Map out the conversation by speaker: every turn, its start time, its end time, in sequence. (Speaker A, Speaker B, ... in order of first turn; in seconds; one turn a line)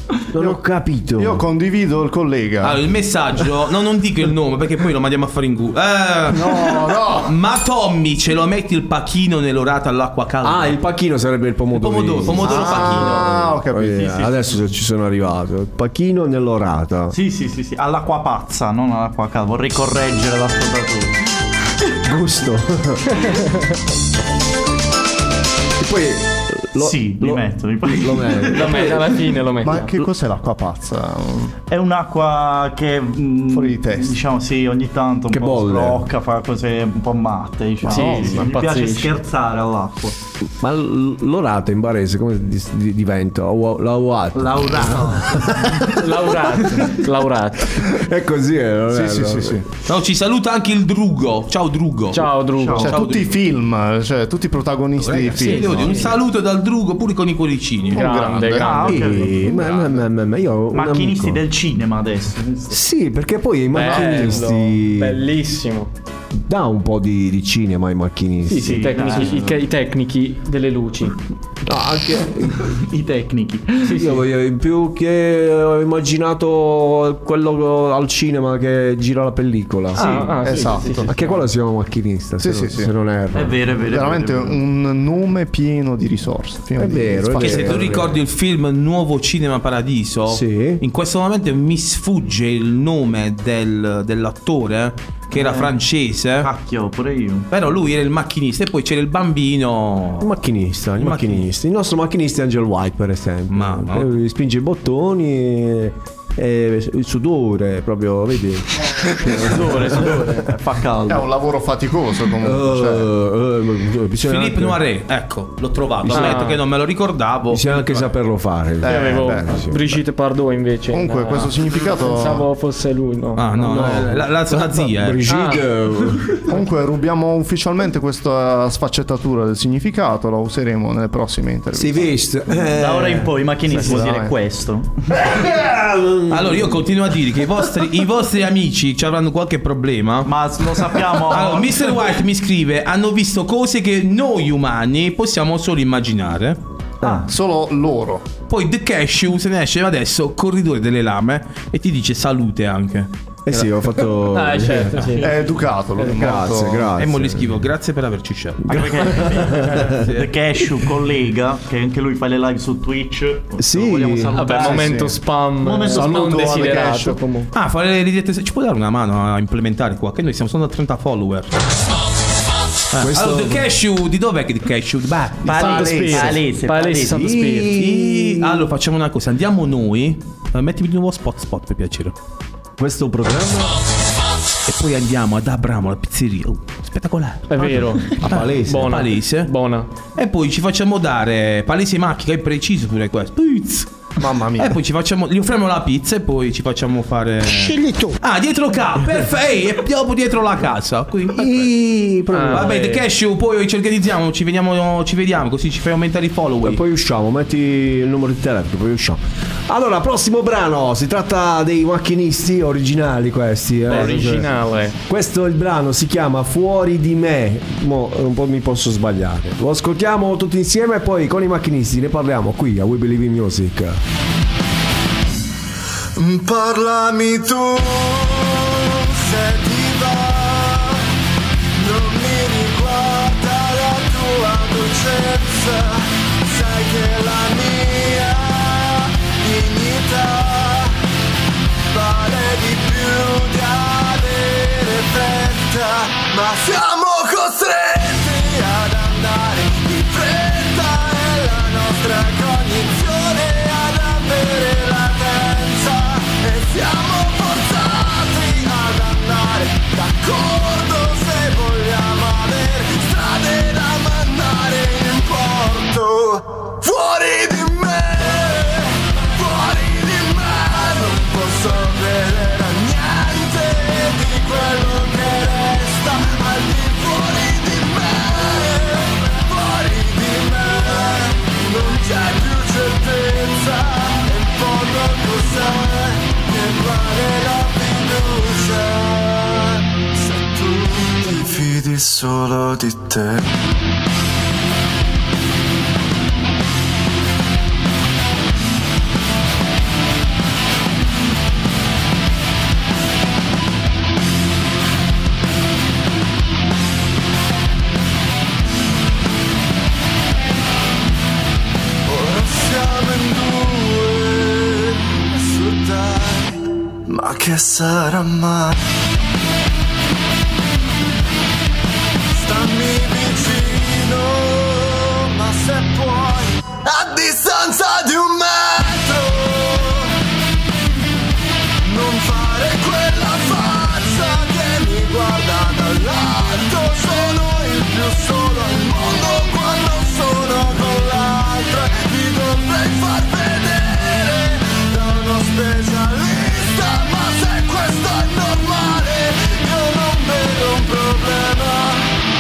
Speaker A: 0.3-1.4
Speaker B: 1.2-2.8
Speaker C: 2.6-10.8
Speaker B: 6.3-7.3
Speaker A: 10.4-17.1
Speaker C: 11.7-13.3
Speaker B: 12.3-14.1
Speaker D: 13.9-14.4
Speaker D: 17.1-21.2
Speaker A: 22.0-23.2
Speaker E: 23.2-23.5
Speaker A: 25.8-29.0
Speaker D: 26.8-29.0
Speaker E: 28.5-29.9
Speaker B: 29.6-31.5
Speaker D: 31.7-40.1
Speaker B: 33.5-34.2
Speaker A: 35.3-36.0
Speaker E: 37.8-39.1
Speaker B: 37.9-38.4
Speaker A: 40.6-45.9
Speaker D: 44.3-45.6
Speaker E: 45.9-47.8
Speaker A: 47.8-49.6
Speaker B: 48.9-49.6
Speaker C: 49.9-53.3
Speaker E: 52.1-52.9
Speaker D: 52.6-53.0
Speaker B: 52.8-56.0
Speaker C: 55.0-58.1
Speaker E: 55.4-56.1
Speaker B: 57.9-59.3
Speaker E: 57.9-58.8
Speaker D: 58.5-60.0
Speaker A: 58.8-61.4
Speaker D: 60.7-62.8
Speaker A: 62.7-65.2
Speaker E: 63.7-65.9
Speaker A: 66.3-69.5
Speaker E: 68.5-71.2
Speaker D: 68.6-69.5
Speaker A: 71.6-72.6
Speaker D: 72.7-74.0
Speaker E: 73.8-74.2
Speaker A: 73.9-83.6
Speaker E: 79.9-81.4
Speaker B: 80.0-81.1
Speaker B: 82.4-82.9
Speaker D: 83.3-84.6
Speaker B: 83.8-88.0
Speaker A: 86.8-88.2
Speaker C: 87.3-96.5
Speaker A: 90.3-90.8
Speaker D: 95.3-95.8
Speaker D: 96.4-97.5
Speaker C: 97.5-100.3
Speaker A: 100.2-110.2
Speaker C: 101.0-101.5
Speaker C: 103.5-104.1
Speaker D: 109.4-111.3
Speaker E: 109.5-110.4
Speaker B: 111.1-113.1
Speaker A: 112.4-114.8
Speaker C: 114.2-118.1
Speaker A: 116.0-116.4
Speaker E: 116.1-116.6
Speaker A: 117.5-119.8
Speaker B: 118.8-119.6
Speaker E: 118.8-123.5
Speaker B: 120.9-122.5
Speaker C: 123.3-125.3
Speaker A: 123.5-126.4
Speaker E: 125.3-125.6
Speaker B: 126.5-132.1
Speaker A: 131.7-133.9
Speaker D: 132.7-135.3
Speaker B: 133.7-134.3
Speaker A: 135.2-136.8
Speaker C: 136.3-140.3
Speaker D: 140.2-142.0
Speaker C: 141.2-146.6
Speaker A: 147.0-147.3
Speaker B: 147.0-148.2
Speaker C: 148.5-153.1
Speaker A: 153.4-155.3
Speaker E: 154.3-155.3
Speaker B: 155.2-156.9
Speaker A: 155.9-157.5
Speaker C: 156.9-159.2
Speaker D: 158.7-165.1
Speaker A: 158.7-159.9
Speaker C: 160.0-160.3
Speaker A: 163.6-164.7
Speaker E: 164.3-167.5
Speaker B: 164.8-165.1
Speaker D: 165.6-166.8
Speaker B: 165.8-167.2
Speaker C: 167.5-171.6
Speaker C: 172.9-175.8
Speaker A: 173.0-173.7
Speaker D: 175.4-177.3
Speaker E: 175.5-177.8
Speaker B: 175.9-176.2
Speaker A: 177.1-178.7
Speaker C: 177.7-182.1
Speaker A: 182.8-183.8
Speaker C: 184.7-189.5
Speaker E: 187.5-189.9
Speaker A: 188.2-189.0
Speaker C: 190.2-193.9
Speaker B: 194.2-194.7
Speaker C: 194.6-206.8
Speaker A: 201.4-202.8
Speaker E: 202.3-203.0
Speaker A: 206.6-214.5
Speaker E: 213.9-214.9
Speaker A: 215.1-224.0
Speaker F: 226.2-231.0
Speaker F: 231.7-241.0
Speaker F: 241.9-293.5
Speaker F: 312.0-318.8
Speaker F: 322.3-330.1
Speaker F: 331.8-352.1